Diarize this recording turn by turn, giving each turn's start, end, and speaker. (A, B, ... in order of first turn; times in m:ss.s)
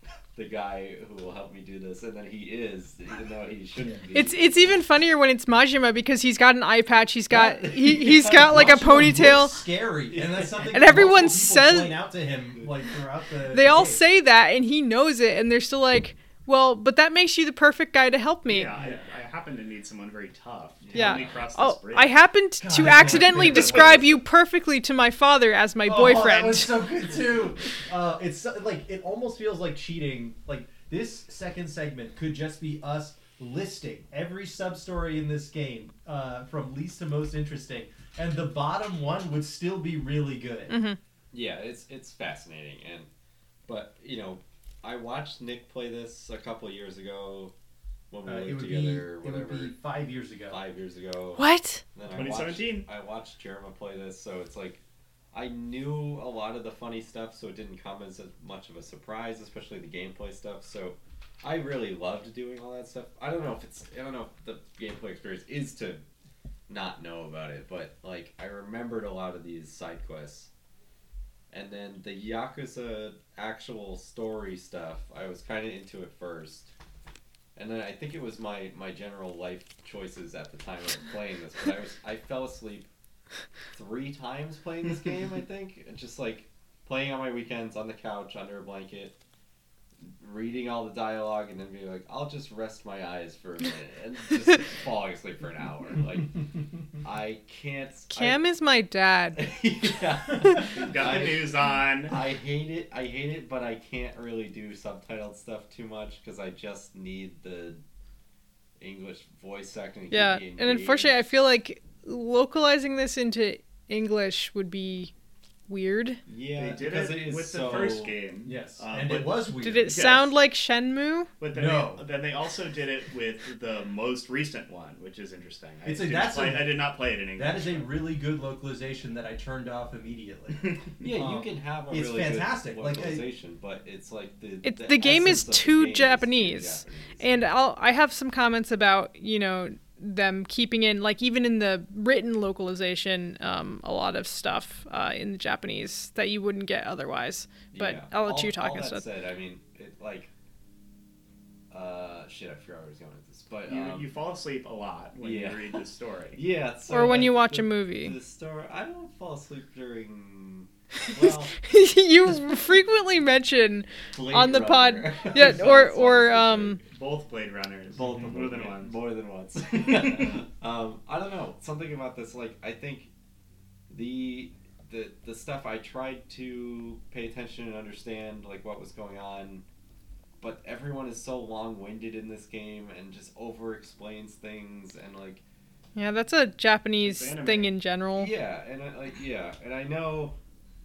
0:00.4-0:04.5 A
0:04.1-0:09.6 B
0:07.3-0:09.4 A
0:08.1-0:14.0 C
0:10.7-0:12.0 B
0:13.5-0:18.7 B
0:18.5-0:22.2 D
0:20.8-0:21.4 A
0:21.0-0:26.9 B
0:22.6-0:24.0 C
0:22.9-0:24.2 D
0:25.8-0:40.8 C
0:40.7-0:41.0 B
0:41.3-0:43.1 A
0:43.7-0:47.5 A
0:48.1-0:49.8 A
0:48.2-0:50.6 C
0:50.5-0:54.8 A
0:51.4-0:51.8 B
0:52.1-0:52.9 D
0:55.3-1:06.0 A
1:06.7-1:10.5 A
1:11.5-1:16.7 A
1:17.6-1:22.9 A
1:23.7-1:29.2 A
1:30.2-1:36.4 A
1:37.0-1:38.4 A
1:38.1-1:39.5 B
1:39.4-1:47.8 A
1:40.4-1:40.7 B
1:40.7-1:42.2 D
1:48.8-1:51.2 A
1:50.1-1:55.1 B
1:55.7-1:56.2 B
1:56.3-1:58.2 A
1:56.6-2:00.3 D
1:58.4-2:00.2 C
1:59.6-2:01.3 B
2:01.4-2:07.9 D
2:01.5-2:02.0 C
2:05.8-2:06.8 C
2:07.3-2:13.2 C
2:11.0-2:17.5 A
2:14.6-2:29.1 B
2:27.7-2:30.3 A
2:31.7-2:34.1 A
2:33.7-2:36.4 D
2:35.2-2:35.8 A
2:36.4-2:41.5 A
2:36.9-2:38.2 B
2:41.1-2:46.8 B
2:44.2-2:46.8 A
2:46.8-2:49.1 D
2:47.9-2:53.1 A
2:48.0-2:48.3 C
2:49.8-2:50.4 D
2:53.9-2:59.6 A
3:00.4-3:05.4 A
3:06.0-3:08.3 B
3:07.0-3:07.7 D
3:08.2-3:10.4 A